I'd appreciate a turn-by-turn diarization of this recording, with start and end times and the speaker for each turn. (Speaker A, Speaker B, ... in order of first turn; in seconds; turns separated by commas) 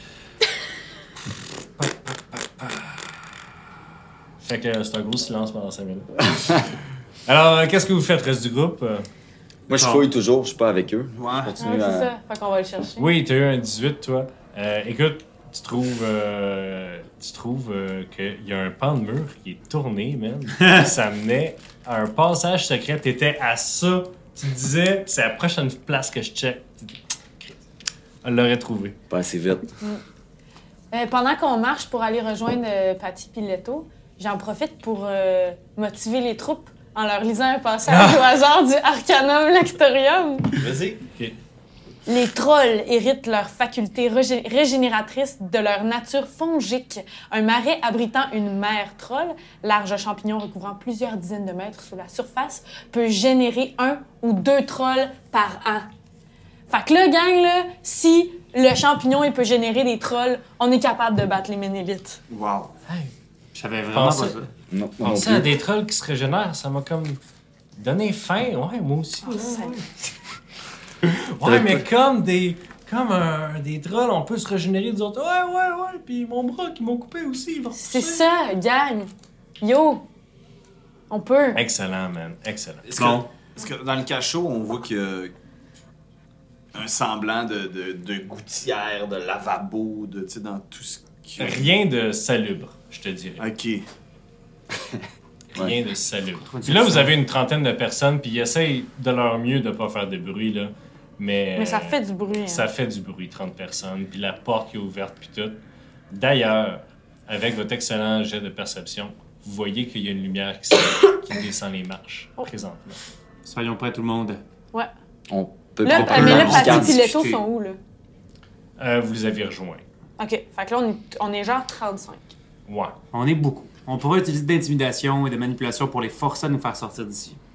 Speaker A: 1.8-3.1, Speaker A: 4.4-6.6, Speaker A: 7.3-9.1, Speaker B: 9.7-12.1, Speaker C: 9.7-10.1, Speaker D: 11.1-11.6, Speaker E: 11.6-13.1, Speaker A: 13.0-27.6, Speaker A: 28.2-29.0, Speaker B: 29.1-29.8, Speaker E: 30.9-40.6, Speaker A: 37.9-38.2, Speaker D: 40.6-41.0, Speaker E: 42.1-55.9, Speaker E: 56.7-62.2, Speaker D: 62.3-62.7, Speaker A: 62.9-63.1, Speaker C: 63.5-64.5, Speaker A: 63.9-64.4, Speaker B: 64.7-65.5, Speaker A: 65.0-67.2, Speaker A: 67.8-70.1, Speaker E: 69.2-69.8, Speaker A: 71.0-78.2, Speaker B: 71.4-71.8, Speaker E: 77.8-79.1, Speaker E: 79.6-80.0, Speaker E: 81.1-81.6, Speaker A: 81.5-82.9, Speaker D: 82.8-85.3, Speaker C: 83.0-83.3, Speaker D: 86.7-91.7, Speaker A: 91.4-93.5, Speaker D: 93.4-93.9, Speaker A: 95.5-113.0, Speaker C: 96.5-97.1, Speaker E: 101.6-102.7, Speaker C: 113.5-114.4, Speaker B: 115.3-117.0, Speaker E: 115.8-117.8, Speaker C: 115.9-117.4, Speaker A: 118.8-119.8, Speaker E: 120.2-122.3, Speaker A: 122.7-123.0, Speaker C: 123.1-127.4